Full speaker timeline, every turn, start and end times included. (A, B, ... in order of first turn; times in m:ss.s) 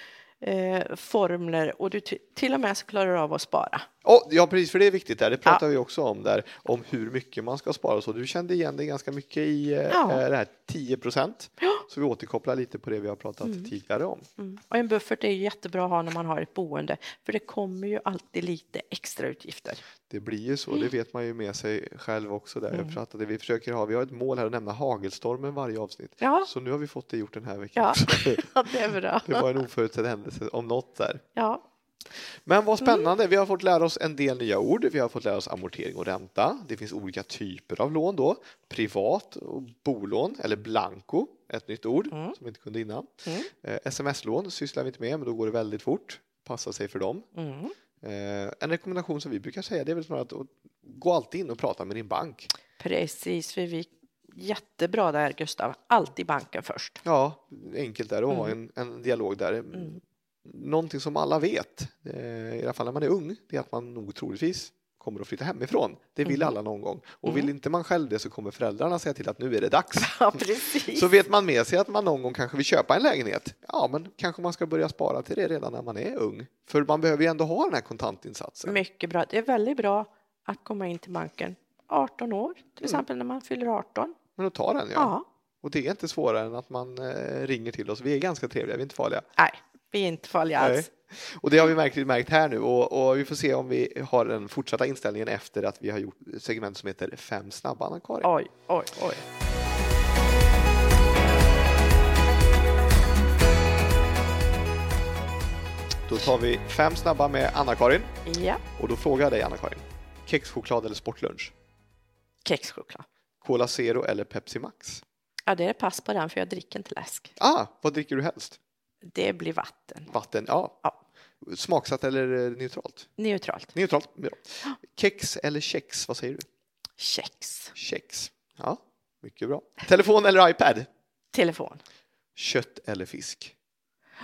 0:00.4-0:03.9 A
0:04.0-0:14.3 B
0:09.9-0:10.2 A
0:13.4-0:13.7 A
0:14.4-0:19.8 A
0:20.1-0:31.2 B
0:22.7-0:23.0 A
0:26.2-0:26.5 A
0:27.8-0:29.6 A
0:31.4-0:31.6 A
0:32.2-0:47.3 B
0:32.8-0:33.1 A
0:42.1-0:42.4 A
0:43.3-0:43.5 A
0:47.4-0:47.7 A
0:48.0-0:52.5 B
0:52.8-0:57.0 A
0:57.0-1:10.4 B
0:58.3-0:58.6 A
1:06.3-1:06.5 A
1:07.2-1:07.5 A
1:10.0-1:11.1 A
1:10.9-1:18.8 B
1:18.6-1:24.2 A
1:24.4-1:29.3 B
1:24.9-1:25.2 A
1:29.4-1:30.9 A
1:30.6-1:38.3 B
1:38.2-1:39.2 A
1:46.1-1:48.1 B
1:48.3-1:48.6 A
1:48.8-1:51.5 B
1:52.4-1:53.1 A
1:53.4-1:55.0 B
1:55.5-1:57.4 A
1:57.4-1:58.6 B
1:59.1-2:00.1 A
2:00.1-2:00.8 B
2:01.4-2:03.1 B
2:03.2-2:03.7 A
2:03.7-2:06.5 B
2:07.0-2:07.7 A
2:07.8-2:10.9 B
2:11.3-2:11.8 A
2:12.4-2:13.5 B